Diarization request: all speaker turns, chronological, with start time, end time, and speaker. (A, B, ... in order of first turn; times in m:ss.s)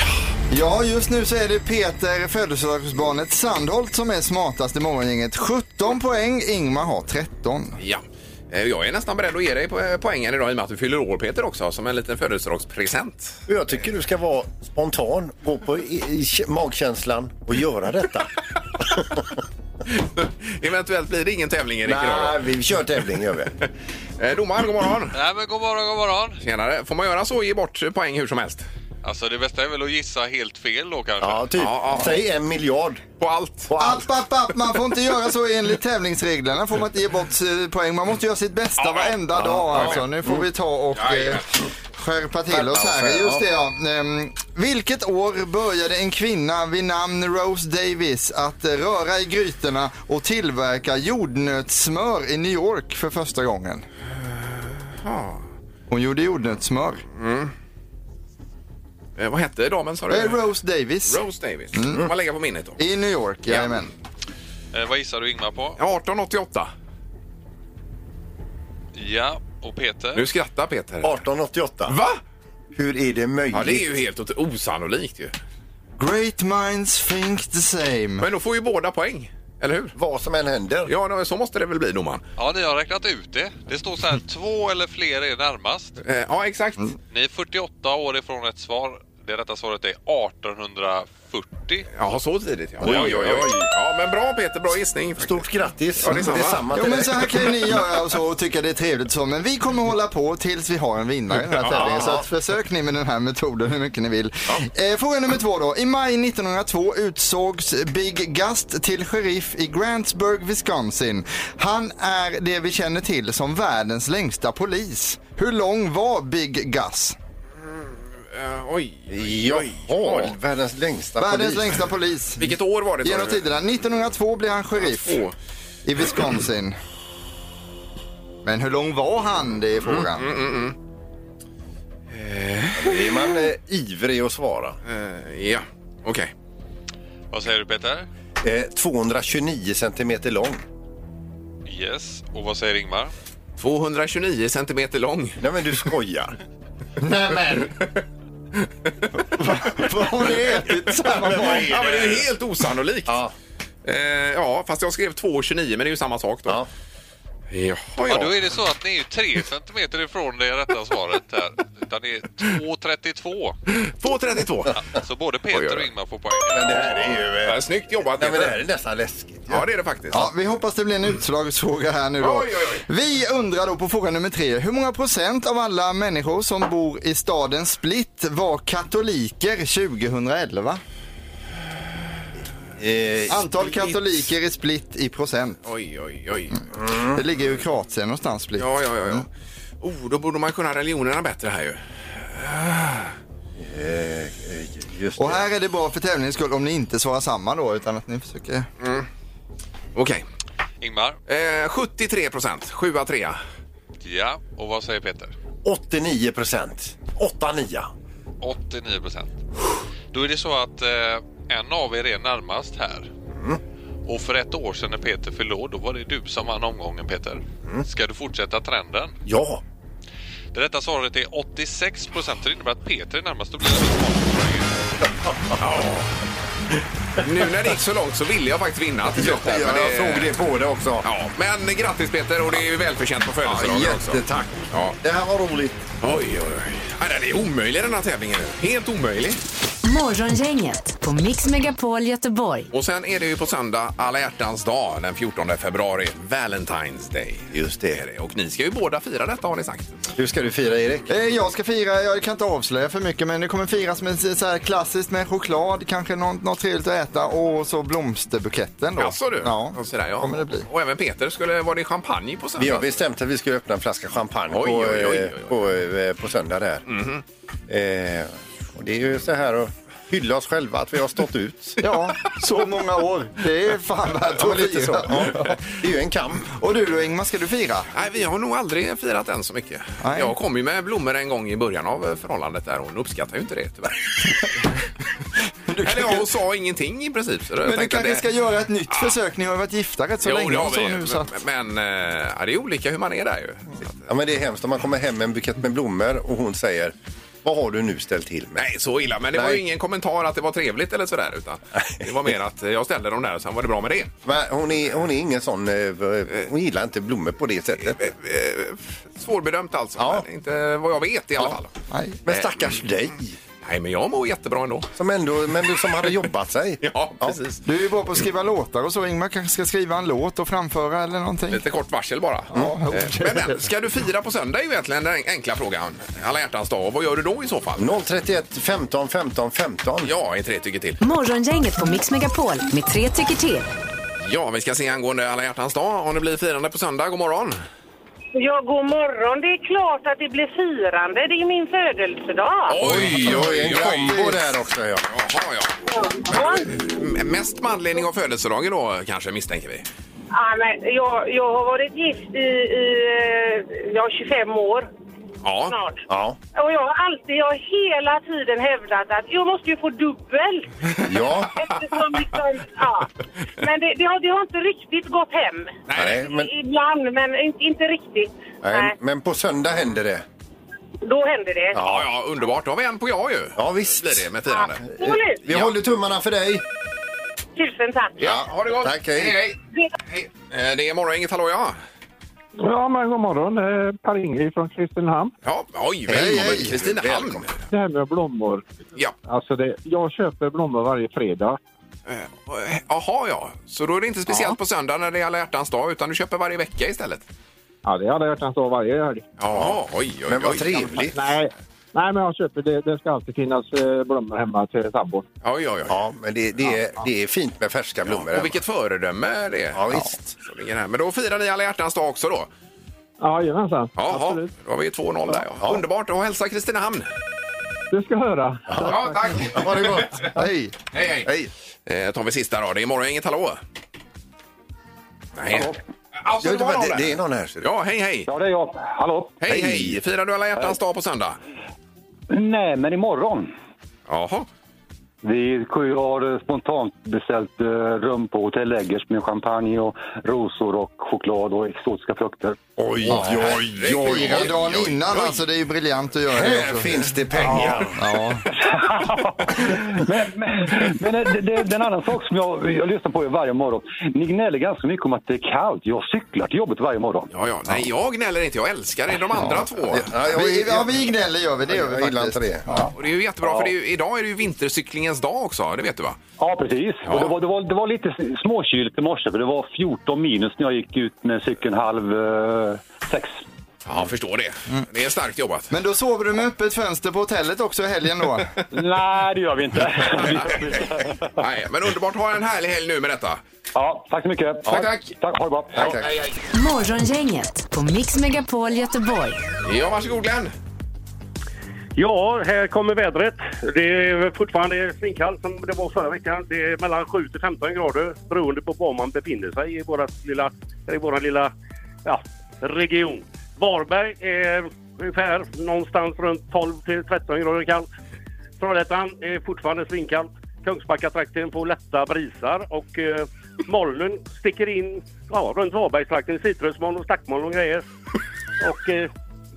0:00.5-0:07.8 A
0:07.8-0:13.4 B
0:13.5-0:19.3 C
0:19.9-0:22.4 B
0:21.8-0:23.5 C
0:24.2-0:25.2 B
0:25.1-0:26.4 D
0:26.4-0:28.6 B
0:29.0-0:31.4 D
0:31.2-0:33.0 C
0:31.6-0:32.2 B
0:33.2-0:33.7 B
0:33.7-0:34.0 C
0:33.8-0:41.4 A
0:38.8-0:39.2 B
0:39.7-0:40.0 B
0:39.7-0:40.4 C
0:41.0-0:41.4 B
0:42.0-0:53.9 A
0:42.5-0:43.4 C
0:54.9-0:55.4 B
0:55.9-0:57.0 A
0:57.2-0:57.5 B
0:59.2-1:00.4 B
1:00.1-1:01.2 A
1:01.1-1:02.8 B
1:01.8-1:02.0 A
1:02.8-1:03.9 A
1:03.5-1:03.7 B
1:04.7-1:05.8 D
1:05.8-1:06.7 B
1:09.0-1:10.2 D
1:10.2-1:11.2 B
1:11.0-1:12.0 C
1:11.9-1:12.2 B
1:12.7-1:13.9 C
1:13.5-1:15.3 B
1:16.0-1:18.3 A
1:18.2-1:19.9 B
1:20.0-1:20.9 C
1:20.9-1:22.2 B
1:22.4-1:26.0 D
1:26.0-1:26.9 B
1:27.1-1:31.9 D
1:32.0-1:35.5 B
1:32.8-1:33.7 C
1:35.2-1:37.6 C
1:36.0-1:36.6 B
1:36.7-1:57.2 A
1:41.6-1:42.2 C
1:57.7-2:00.4 B
1:59.1-2:01.9 C
2:01.2-2:05.2 A
2:02.4-2:03.4 B
2:04.8-2:05.3 B
2:05.9-2:06.8 A
2:08.4-2:10.2 A
2:10.2-2:10.8 B
2:12.1-2:13.2 B
2:12.8-2:14.8 C
2:14.9-2:16.3 B
2:17.3-2:18.1 D
2:18.4-2:20.6 C
2:21.7-2:23.1 D
2:23.6-2:25.4 B
2:25.4-2:26.3 C
2:27.0-2:27.7 C
2:29.4-2:31.7 A
2:31.2-2:32.2 C
2:31.2-2:33.2 B
2:33.1-2:33.3 C
2:33.8-2:36.6 B
2:37.5-2:38.4 B
2:38.0-2:43.6 D
2:43.8-2:44.8 B
2:44.8-2:47.1 D
2:45.5-2:45.9 B
2:46.5-2:47.6 C
2:47.4-2:48.6 B
2:48.2-2:49.7 C
2:49.5-2:50.3 B
2:50.1-3:00.8 A
2:52.2-2:52.8 B
3:02.8-3:03.5 C
3:03.3-3:05.6 A
3:05.6-3:06.8 B
3:06.8-3:07.2 C
3:07.1-3:09.2 A
3:08.6-3:09.3 B
3:09.8-3:13.1 B
3:13.6-3:15.5 C
3:15.2-3:18.7 A
3:18.8-3:19.1 B
3:20.0-3:20.2 B
3:20.8-3:21.2 D
3:21.3-3:23.4 B
3:24.0-3:25.3 D
3:25.6-3:27.9 C
3:28.4-3:29.4 D
3:30.1-3:33.1 D
3:33.3-3:33.6 C
3:34.1-3:39.2 D
3:39.3-3:39.6 C
3:40.5-3:44.7 D
3:45.6-3:46.1 B
3:47.2-3:50.3 B
3:49.1-3:51.1 C
3:51.0-3:55.0 B
3:53.4-3:55.8 C
3:56.0-3:59.4 B
3:59.8-4:02.7 E
4:02.7-4:10.0 B
4:10.2-4:11.1 C
4:11.1-4:20.6 A
4:19.0-4:22.9 B
4:22.6-4:26.8 C
4:24.5-4:25.6 B
4:26.9-4:27.2 B
4:27.7-4:31.8 C
4:31.8-4:35.6 A
4:34.3-4:36.5 C
4:36.5-4:37.9 A
4:37.9-4:44.5 B
4:40.0-4:40.3 A
4:45.7-4:46.3 A
4:45.8-4:48.2 B
4:47.7-4:51.3 A
4:48.9-4:49.2 B
4:50.2-4:54.1 B
4:54.1-4:58.6 C
4:58.6-5:04.1 B
4:59.3-4:59.6 C
5:04.2-5:08.1 C
5:07.8-5:11.7 B
5:10.0-5:10.2 C
5:11.9-5:12.2 A
5:12.3-5:13.4 C
5:12.3-5:12.8 B
5:13.6-5:14.9 B
5:15.0-5:17.4 C
5:16.8-5:17.6 B
5:17.6-5:21.6 A
5:21.5-5:27.9 B
5:22.5-5:23.6 A
5:27.8-5:30.1 C
5:30.0-5:31.0 B
5:31.0-5:33.7 E
5:34.2-5:37.6 B
5:38.4-5:42.7 F
5:42.7-5:44.5 B
5:42.8-5:45.1 C
5:45.1-5:49.9 B
5:50.4-5:54.9 F
5:55.4-5:55.8 B
5:55.7-5:56.0 F
5:56.1-5:56.4 C
5:56.6-6:00.7 F
6:01.0-6:01.5 C
6:01.6-6:03.1 F
6:03.6-6:05.8 F
6:05.9-6:06.2 B
6:06.0-6:06.5 C
6:06.3-6:08.9 F
6:08.6-6:10.2 C
6:11.0-6:11.7 F
6:11.7-6:12.1 C
6:11.8-6:14.8 B
6:13.6-6:14.3 C
6:14.8-6:16.6 C
6:15.0-6:15.4 F
6:17.6-6:18.2 F
6:18.2-6:21.8 B
6:18.2-6:19.4 C
6:22.6-6:25.3 G
6:25.4-6:27.5 B
6:26.1-6:27.5 C
6:26.1-6:26.7 A
6:27.7-6:28.6 G
6:29.3-6:31.6 G
6:32.1-6:37.2 B
6:37.8-6:39.2 G
6:39.4-6:41.1 B
6:39.5-6:41.2 C
6:41.1-6:45.2 G
6:45.4-6:46.0 B
6:45.9-6:48.6 C
6:48.1-6:52.5 B
6:49.7-6:50.3 C
6:53.2-6:54.5 G
6:54.0-6:57.1 B
6:57.9-6:59.4 G
6:58.7-7:00.3 C
6:58.7-7:00.3 B
7:00.4-7:00.8 A
7:00.9-7:01.3 B
7:01.9-7:03.6 B
7:05.4-7:08.3 B
7:06.4-7:07.7 C
7:08.3-7:09.4 H
7:09.4-7:11.4 B
7:09.5-7:10.0 C
7:12.3-7:13.5 H
7:14.1-7:14.5 B
7:15.2-7:22.6 H
7:22.8-7:24.5 C
7:23.0-7:25.4 B
7:23.8-7:26.9 A
7:26.3-7:28.0 C
7:27.5-7:28.4 A
7:28.5-7:37.3 H
7:37.3-7:40.1 B
7:39.4-7:41.1 C
7:40.3-7:42.9 A
7:41.7-7:42.7 C
7:43.0-7:46.2 B
7:46.4-7:53.4 H
7:47.0-7:47.4 B
7:53.8-7:55.7 B
7:55.7-7:58.5 A
7:58.7-8:00.7 H
8:00.1-8:00.5 B
8:01.4-8:03.4 B
8:03.8-8:05.8 H
8:04.7-8:05.1 B
8:05.7-8:06.4 B
8:05.7-8:06.1 C
8:06.5-8:09.4 E
8:09.6-8:10.5 B
8:12.0-8:21.5 I
8:22.0-8:27.9 I
8:28.6-8:37.8 I
8:38.6-8:39.1 I